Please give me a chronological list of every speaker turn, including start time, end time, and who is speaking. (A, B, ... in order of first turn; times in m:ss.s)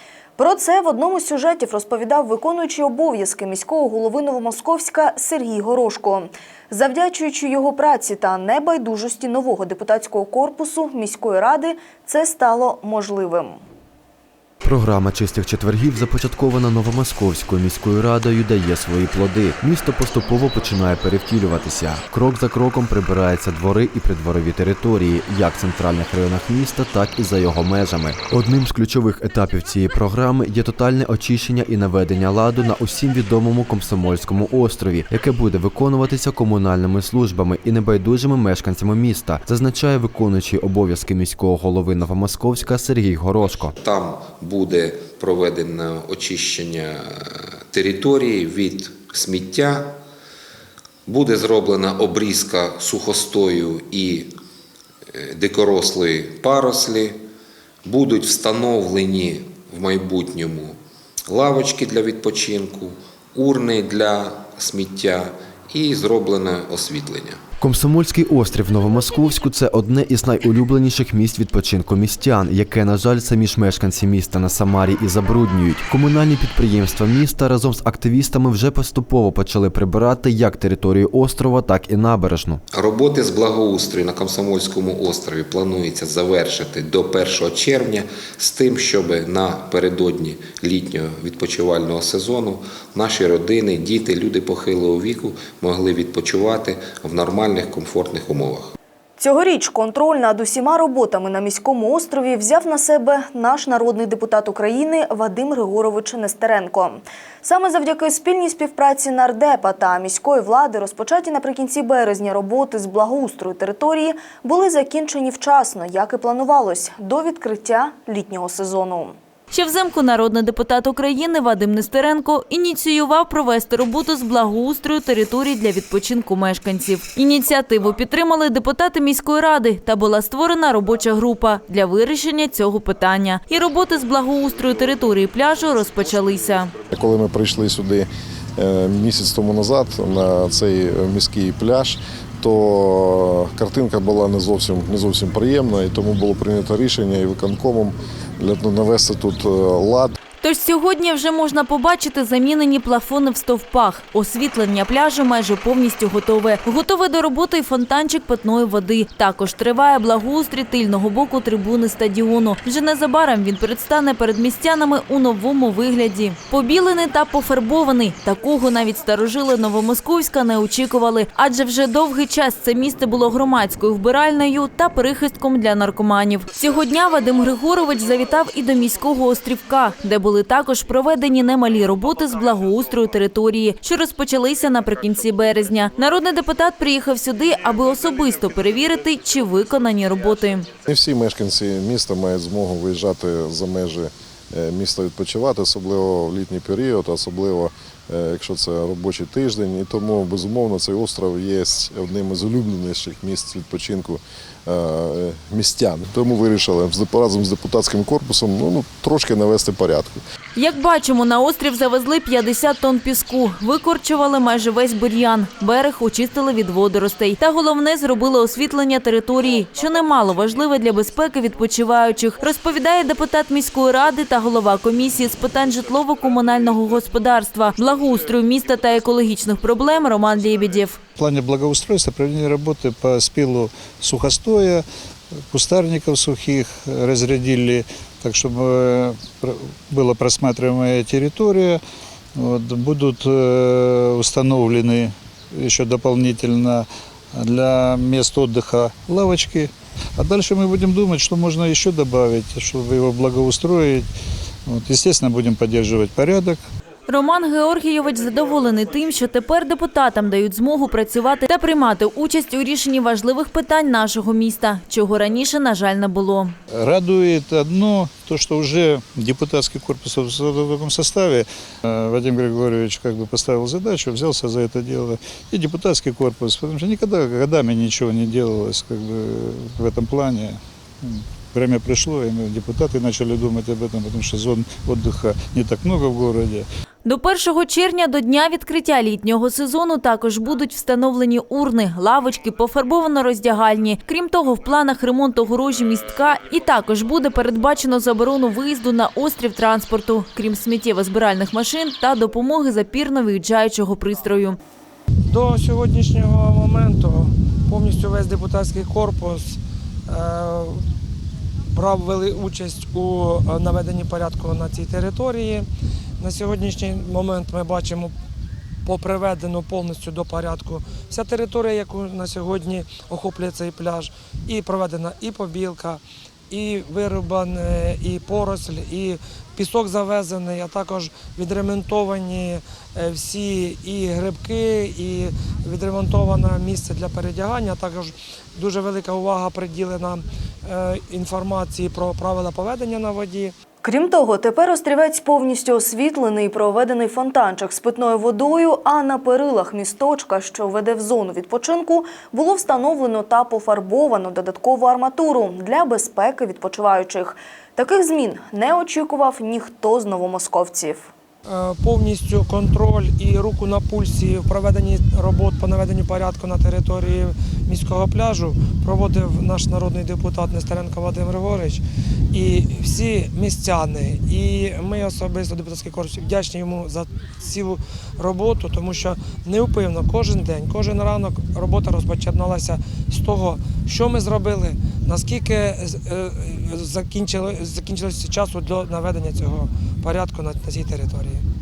0:00.4-0:13.6 A
0:14.6-0:43.7 B
0:43.8-0:50.0 C
0:51.1-0:54.3 C
0:55.1-0:57.2 C
0:57.8-1:07.4 C
1:07.6-1:22.6 B
1:22.7-1:38.7 C
1:39.2-1:59.2 A
1:59.5-2:16.7 D
2:16.9-2:30.1 E
2:30.4-3:10.7 D
3:10.8-3:30.2 E
3:30.5-3:51.0 D
3:51.2-3:54.8 F
3:55.5-4:01.8 F
4:02.4-4:14.1 F
4:14.7-4:16.6 F
4:17.1-4:26.5 D
4:26.7-4:46.6 F
4:47.0-5:04.6 D
5:05.3-5:10.8 G
5:11.7-5:15.6 G
5:16.2-5:18.1 G
5:18.8-5:43.5 G
5:43.8-6:01.1 A
6:01.5-6:11.8 G
6:12.3-6:31.4 G